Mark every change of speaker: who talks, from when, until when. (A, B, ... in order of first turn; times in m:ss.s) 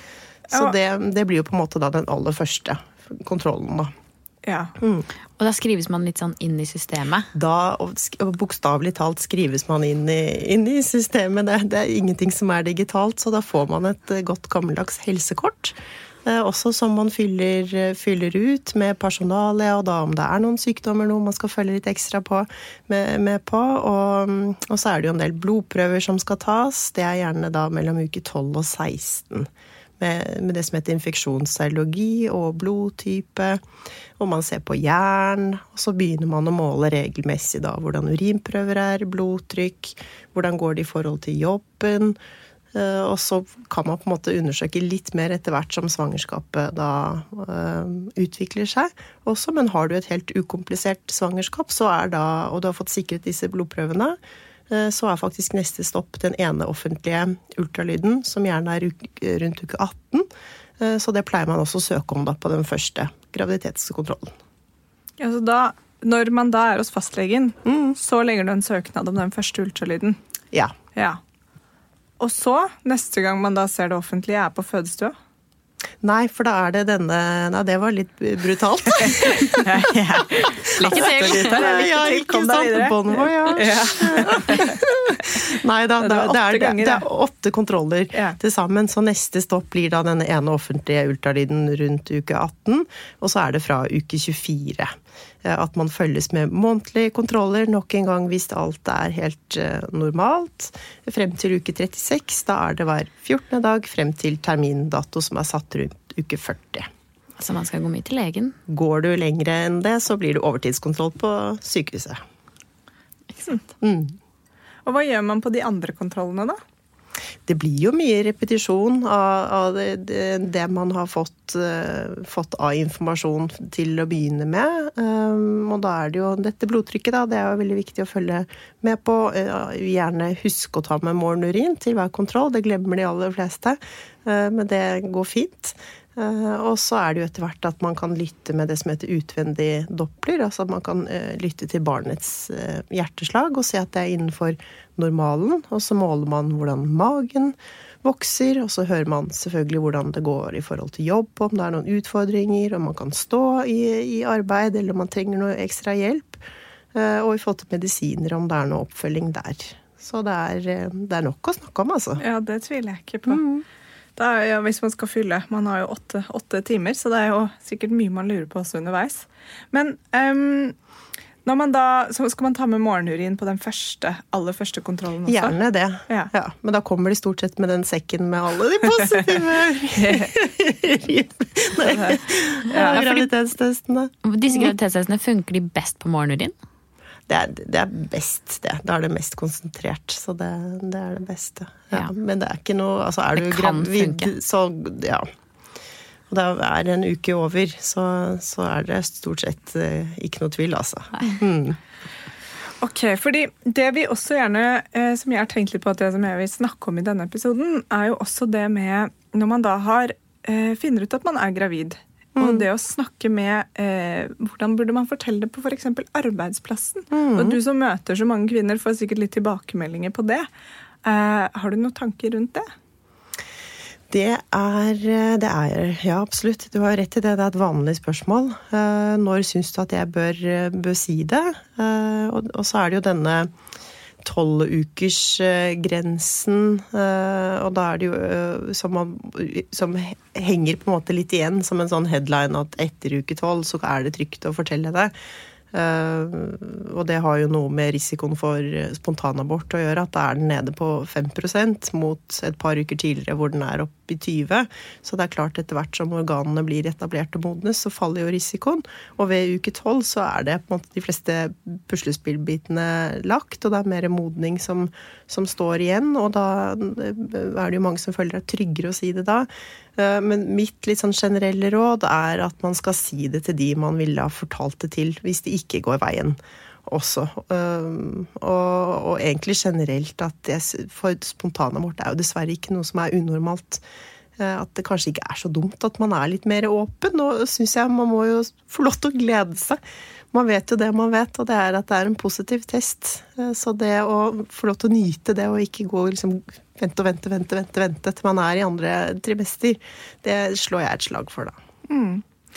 0:00.5-0:03.9 A
0:04.4-0:04.7 B
0:04.8-0:05.1 A
0:05.4-0:07.3 C
0:07.4-0:29.5 A
0:30.0-0:33.6 A
0:34.2-0:42.2 A
0:42.7-0:54.2 A
0:54.7-1:00.3 A
1:00.8-1:04.4 A
1:05.2-1:10.2 B
1:07.6-1:08.0 A
1:11.0-1:11.2 B
1:12.2-1:15.2 B
1:16.0-1:19.7 A
1:19.0-1:24.8 B
1:20.6-1:46.9 A
1:20.8-1:21.6 C
1:26.0-1:27.0 B
1:47.4-1:48.6 C
1:48.7-1:52.2 A
1:53.8-1:54.2 A
1:54.9-1:56.6 B
1:57.5-2:36.4 A
2:36.9-2:42.2 A
2:42.2-2:43.4 B
2:43.3-2:43.6 A
2:44.2-2:50.8 B
2:51.4-2:55.6 B
2:55.3-3:04.7 A
3:00.0-3:00.3 B
3:01.8-3:03.1 B
3:02.9-3:03.2 C
3:04.2-3:06.6 C
3:07.3-3:15.3 A
3:13.4-3:14.3 C
3:16.3-3:21.8 A
3:22.8-3:40.5 B
3:32.4-3:32.7 A
3:37.1-3:37.6 A
3:41.0-3:42.7 B
3:44.1-3:53.5 A
3:54.2-4:05.1 A
4:05.7-4:43.8 A
4:44.4-4:49.8 A
4:50.3-5:01.6 A
5:01.9-5:02.2 B